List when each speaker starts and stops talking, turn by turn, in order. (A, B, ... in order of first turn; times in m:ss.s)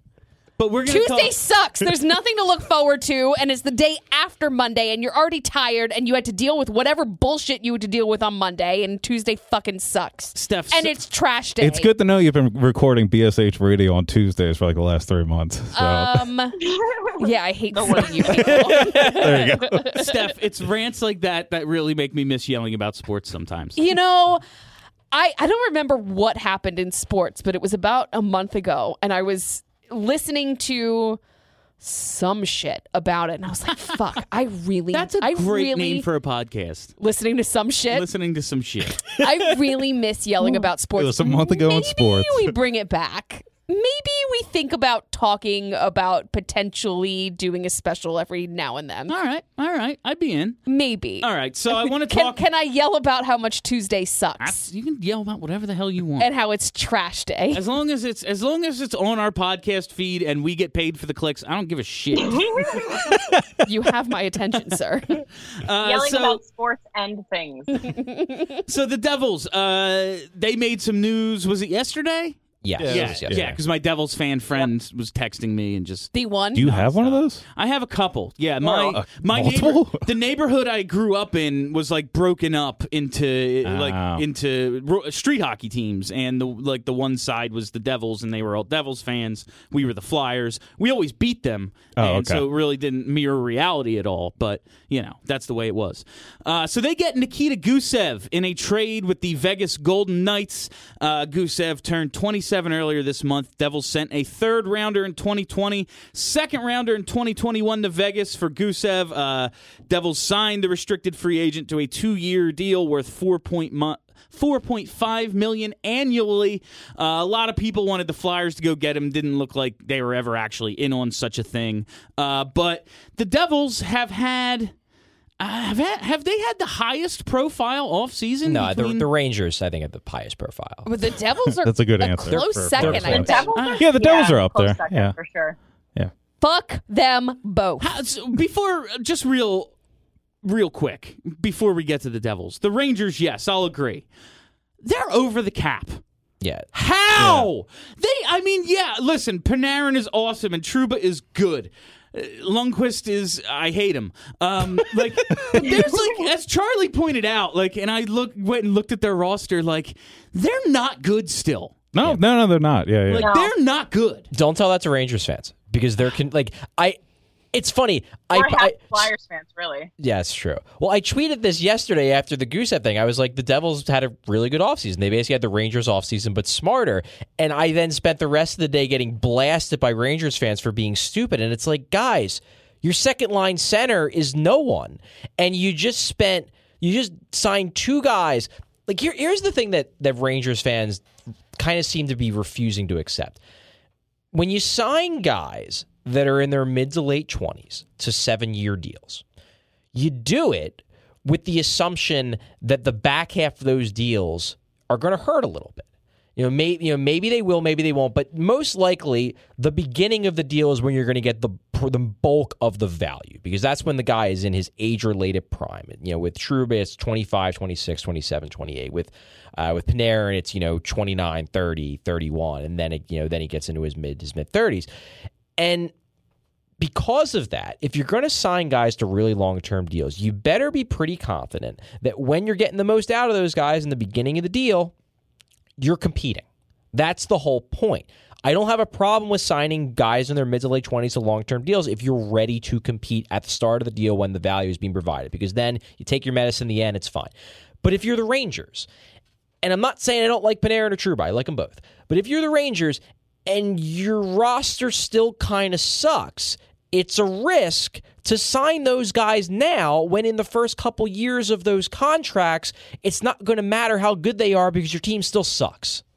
0:00.6-0:01.3 A
0:00.8-0:11.9 B
0:10.3-0:10.9 A
0:11.6-0:16.2 C
0:15.7-0:16.6 B
0:16.6-0:18.8 D
0:17.2-0:20.1 B
0:18.5-0:20.0 C
0:19.9-0:23.8 A
0:23.8-0:24.4 B
0:25.1-0:31.2 B
0:31.8-0:36.0 B
0:34.9-0:37.0 A
0:37.0-0:38.1 B
0:37.9-0:39.0 A
0:39.2-0:49.1 B
0:41.0-0:42.6 C
0:49.1-0:50.6 A
0:50.7-0:54.7 B
0:51.2-0:52.4 A
0:54.4-0:56.3 A
0:56.2-0:57.6 B
0:57.5-1:03.1 A
1:02.2-1:03.1 D
1:03.6-1:05.2 B
1:05.6-1:06.4 A
1:05.8-1:07.9 D
1:07.9-1:08.3 B
1:08.6-2:04.7 A
1:12.6-1:13.6 E
1:12.8-1:13.5 C
1:16.1-1:16.6 B
1:16.5-1:17.4 C
1:18.7-1:20.1 C
1:23.6-1:24.2 C
1:32.0-1:32.4 C
2:05.4-2:09.0 A
2:08.4-2:10.9 E
2:10.8-2:13.5 B
2:11.6-2:15.1 C
2:12.3-2:13.3 E
2:13.1-2:15.6 D
2:13.5-2:13.9 A
2:16.4-2:17.9 B
2:17.8-2:19.7 A
2:20.4-2:24.0 A
2:24.8-2:26.0 A
2:26.4-2:26.7 E
2:26.7-2:41.9 A
2:27.2-2:27.5 C
2:35.3-2:35.6 C
2:35.6-2:36.2 D
2:41.9-2:43.3 C
2:43.1-2:44.3 A
2:43.2-2:43.5 D
2:44.3-2:47.0 E
2:47.5-2:49.1 E
2:48.3-2:49.9 D
2:50.0-3:11.0 E
3:11.6-3:13.4 E
3:14.3-3:19.2 E
3:19.9-3:44.9 E
3:45.6-3:45.9 E
3:46.8-3:54.9 E
3:55.8-4:07.3 E
4:07.8-4:08.9 E
4:09.6-4:26.0 E